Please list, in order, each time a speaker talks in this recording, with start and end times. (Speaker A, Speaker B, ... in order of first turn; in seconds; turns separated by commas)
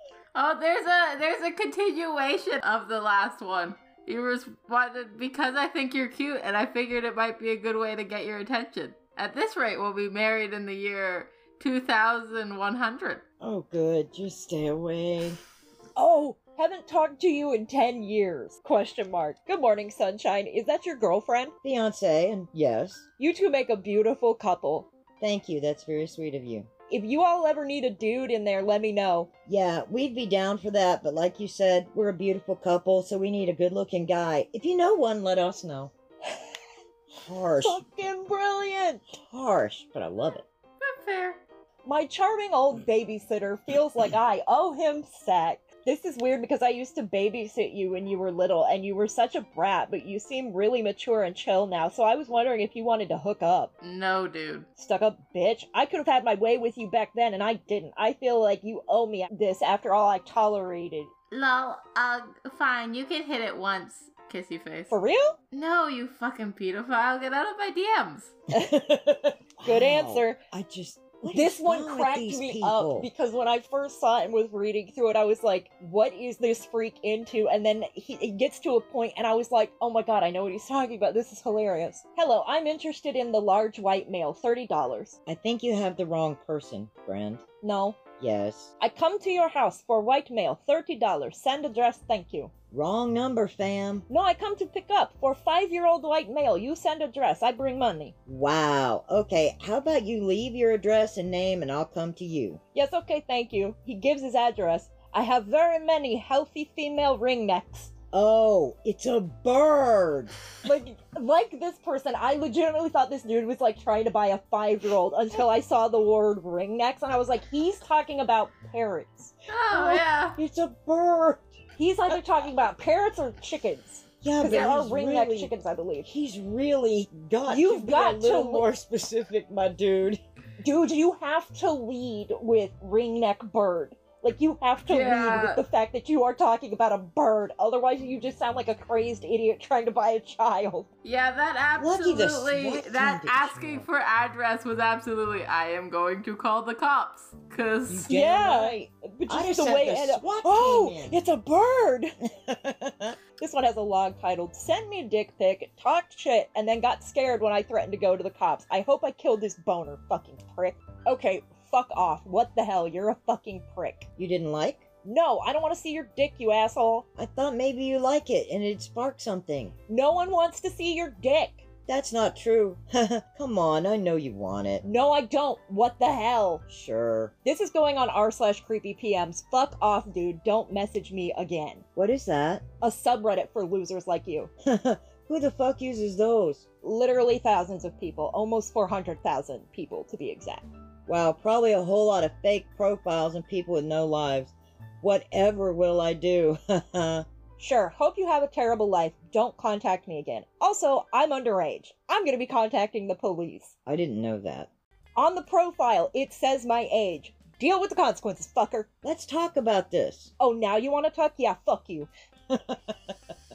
Speaker A: 0.3-13.2, Speaker B: 13.4-15.4, Speaker C: 16.0-21.6, Speaker B: 21.6-23.1, Speaker C: 23.2-24.9, Speaker B: 25.2-26.7, Speaker C: 26.9-29.3, Speaker B: 29.5-35.9, Speaker B: 37.2-37.8, Speaker C: 37.6-39.0, Speaker B: 39.3-40.5, Speaker A: 40.8-41.4, Speaker C: 41.9-53.7, Speaker A: 53.8-54.7, Speaker C: 54.8-61.1, Speaker A: 61.3-64.9, Speaker C: 64.9-65.4, Speaker A: 65.5-68.3, Speaker C: 68.5-68.9, Speaker B: 69.6-73.1, Speaker C: 69.6-70.4, Speaker C: 71.3-85.2, Speaker B: 85.3-87.4, Speaker C: 87.6-88.0, Speaker B: 88.2-88.7, Speaker C: 88.8-92.5, Speaker B: 92.7-94.1, Speaker C: 94.1-98.1, Speaker B: 98.3-102.6, Speaker C: 102.8-107.9, Speaker B: 108.1-110.3, Speaker C: 110.6-119.9, Speaker A: 119.5-120.4, Speaker B: 119.8-121.5, Speaker C: 121.8-126.1, Speaker B: 124.2-125.5, Speaker B: 126.0-130.2, Speaker C: 127.5-128.7, Speaker C: 130.6-140.9, Speaker A: 134.9-135.6, Speaker A: 141.0-148.1, Speaker B: 141.8-143.8, Speaker B: 147.9-151.2, Speaker C: 148.1-152.1, Speaker B: 152.5-153.2, Speaker C: 153.4-164.1, Speaker B: 164.2-164.9, Speaker C: 165.1-167.1, Speaker B: 167.2-169.8, Speaker C: 169.9-171.7, Speaker B: 171.9-174.8, Speaker C: 174.8-176.6, Speaker B: 176.7-177.3, Speaker C: 177.4-181.8, Speaker B: 182.0-182.6, Speaker C: 182.8-184.5, Speaker B: 184.6-186.7, Speaker C: 186.8-190.7, Speaker B: 191.1-197.2, Speaker C: 197.6-203.7, Speaker B: 203.9-204.7, Speaker C: 205.2-208.9, Speaker B: 209.0-210.3, Speaker C: 210.4-212.1, Speaker B: 212.5-213.1